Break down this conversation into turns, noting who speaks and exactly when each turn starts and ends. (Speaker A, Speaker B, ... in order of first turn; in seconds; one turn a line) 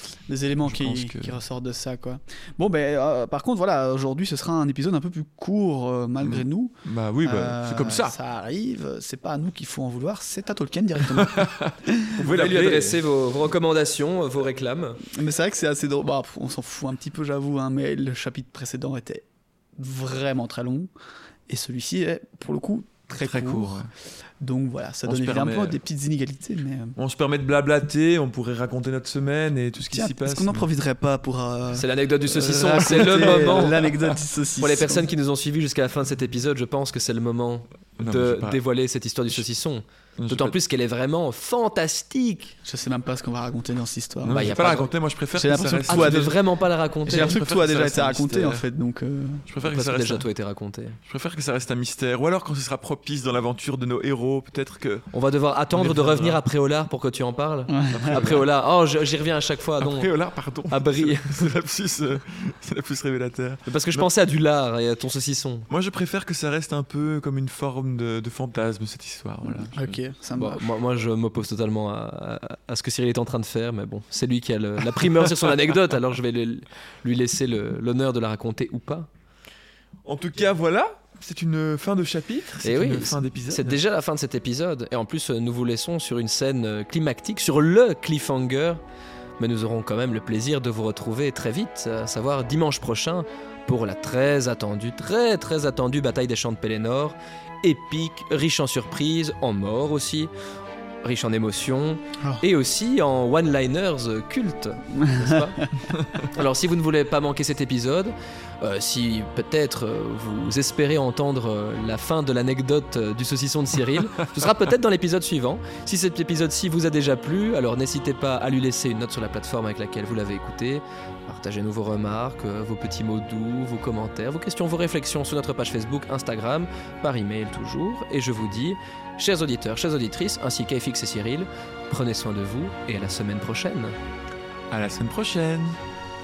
Speaker A: 0.3-12.2
Speaker B: 0.6-1.4
Speaker B: 6.2-8.2
Speaker B: 11.1-13.0
Speaker C: 12.2-15.0
Speaker A: 15.0-19.2
Speaker A: 19.8-20.9
Speaker A: 21.5-23.8
Speaker B: 23.2-23.9
Speaker A: 24.4-27.0
Speaker B: 25.1-25.8
Speaker B: 27.0-30.7
Speaker A: 29.9-35.1
Speaker C: 31.7-33.8
Speaker B: 32.6-34.0
Speaker C: 34.6-42.6
Speaker B: 38.0-38.6
Speaker B: 40.2-40.6
Speaker A: 42.6-44.8
Speaker B: 44.2-46.3
Speaker C: 44.3-44.9
Speaker A: 45.4-46.3
Speaker C: 45.9-47.4
Speaker B: 47.1-48.6
Speaker A: 47.1-49.5
Speaker B: 49.5-50.3
Speaker C: 49.6-51.0
Speaker B: 51.1-55.1
Speaker C: 55.1-60.1
Speaker B: 55.8-56.4
Speaker A: 57.7-58.4
Speaker B: 57.9-58.4
Speaker B: 59.8-64.1
Speaker C: 60.7-61.5
Speaker C: 63.7-65.7
Speaker B: 65.7-70.0
Speaker A: 69.7-70.6
Speaker C: 70.4-79.1
Speaker B: 80.0-83.8
Speaker C: 82.6-88.8
Speaker C: 89.4-100.3
Speaker C: 101.0-105.6
Speaker A: 105.0-105.7
Speaker C: 106.3-134.0
Speaker B: 134.7-135.8